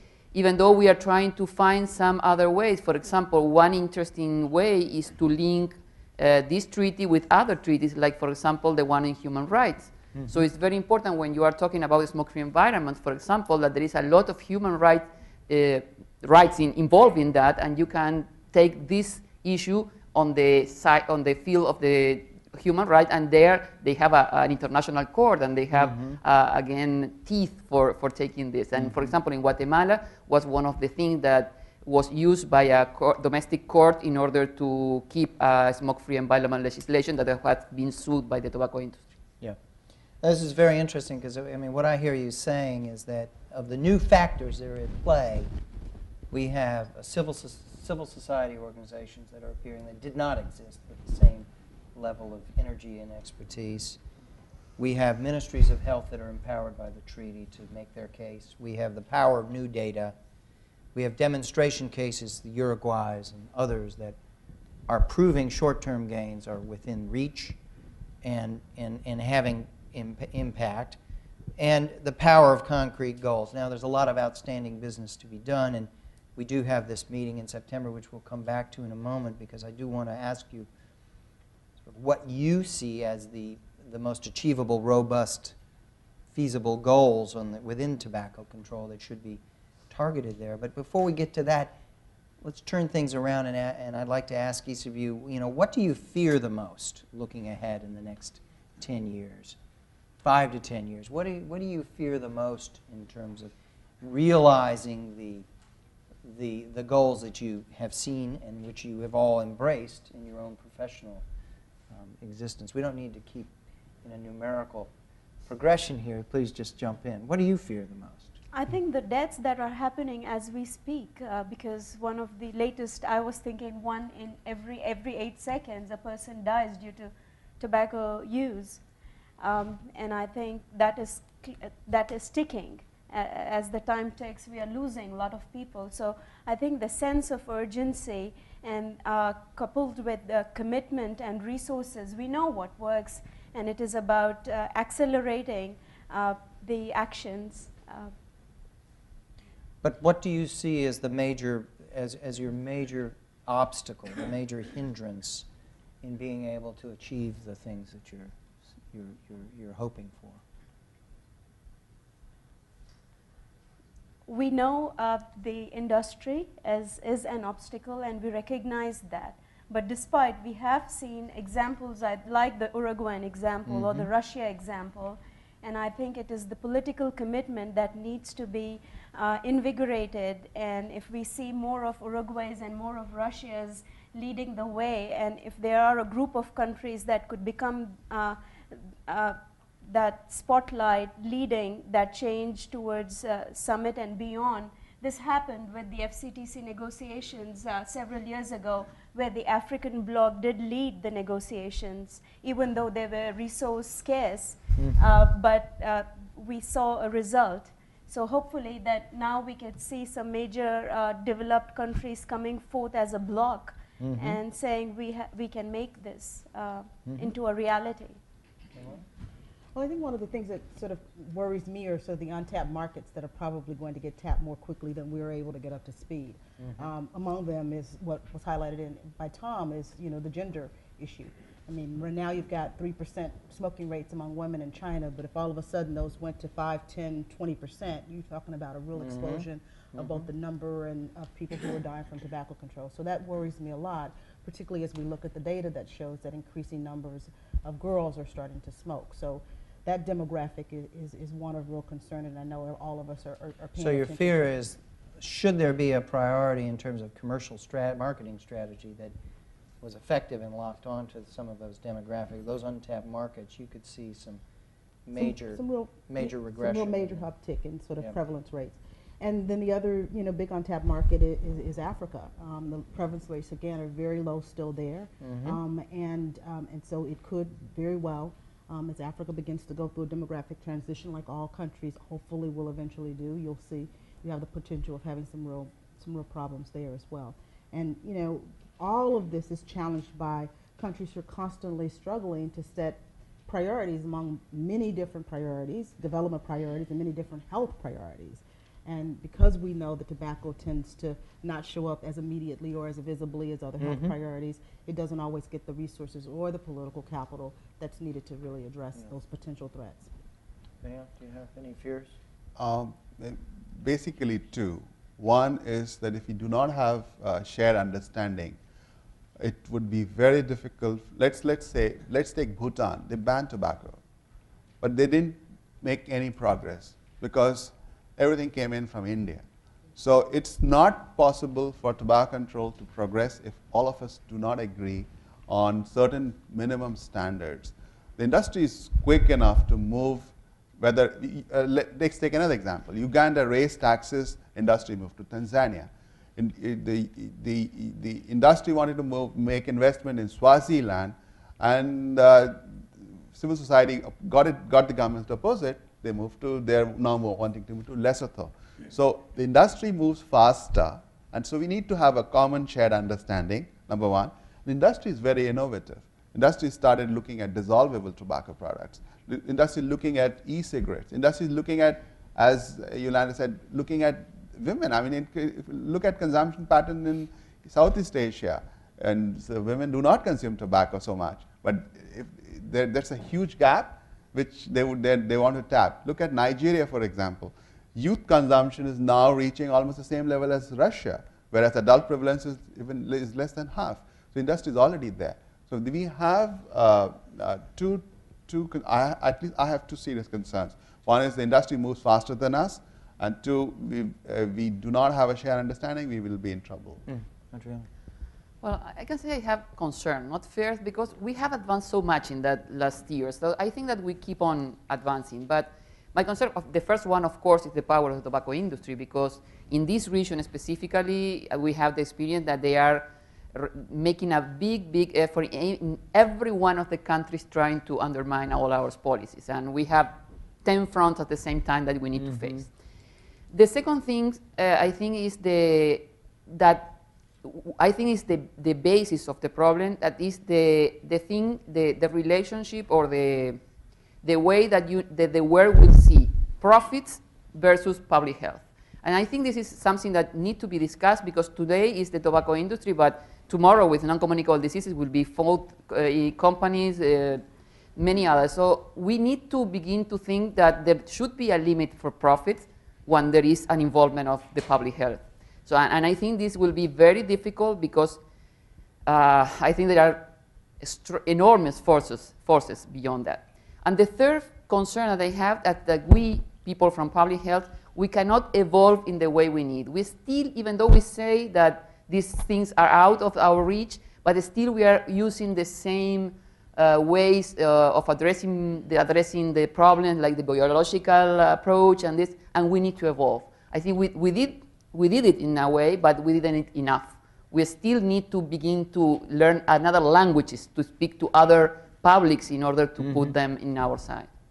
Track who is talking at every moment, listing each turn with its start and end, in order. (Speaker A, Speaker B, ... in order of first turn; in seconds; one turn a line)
Speaker A: 0.3-39.0
Speaker B: 10.1-10.4
Speaker B: 25.7-26.2
Speaker B: 28.7-29.1
Speaker B: 40.2-45.5
Speaker B: 46.3-54.0
Speaker B: 54.8-60.1
Speaker B: 60.9-64.2
Speaker B: 64.9-67.6
Speaker B: 68.2-71.0
Speaker B: 71.6-80.7
Speaker B: 81.8-85.5
Speaker B: 86.3-91.8
Speaker B: 92.4-99.6
Speaker B: 100.2-105.4
Speaker B: 106.2-111.2
Speaker B: 111.9-113.5
Speaker B: 114.0-114.9
Speaker B: 115.4-118.3
Speaker C: 118.5-128.8
Speaker C: 129.4-148.1
Speaker B: 149.8-155.4
Speaker B: 156.0-158.3
Speaker B: 158.9-160.4
Speaker C: 164.2-188.4
Speaker B: 173.7-174.1
Speaker C: 189.1-218.2
Speaker B: 204.8-205.0
Speaker B: 214.0-214.4
Speaker B: 217.1-217.3
Speaker B: 218.8-219.0
Speaker D: 219.7-254.4
Speaker B: 226.6-226.9
Speaker B: 238.9-240.2
Speaker B: 253.7-259.1
Speaker B: 259.8-264.4
Speaker B: 265.0-267.3
Speaker D: 265.1-310.1
Speaker B: 275.2-275.6
Speaker B: 303.8-304.2
Speaker B: 310.8-312.1
Speaker E: 312.6-318.6
Speaker E: 319.4-324.0
Speaker E: 324.8-407.0
Speaker B: 407.1-407.9
Speaker A: 408.6-432.7
Speaker B: 432.1-432.6
Speaker A: 433.5-443.6
Speaker A: 444.2-457.4
Speaker A: 457.9-468.2
Speaker A: 469.1-470.3
Speaker A: 470.8-504.3
Speaker B: 503.0-503.4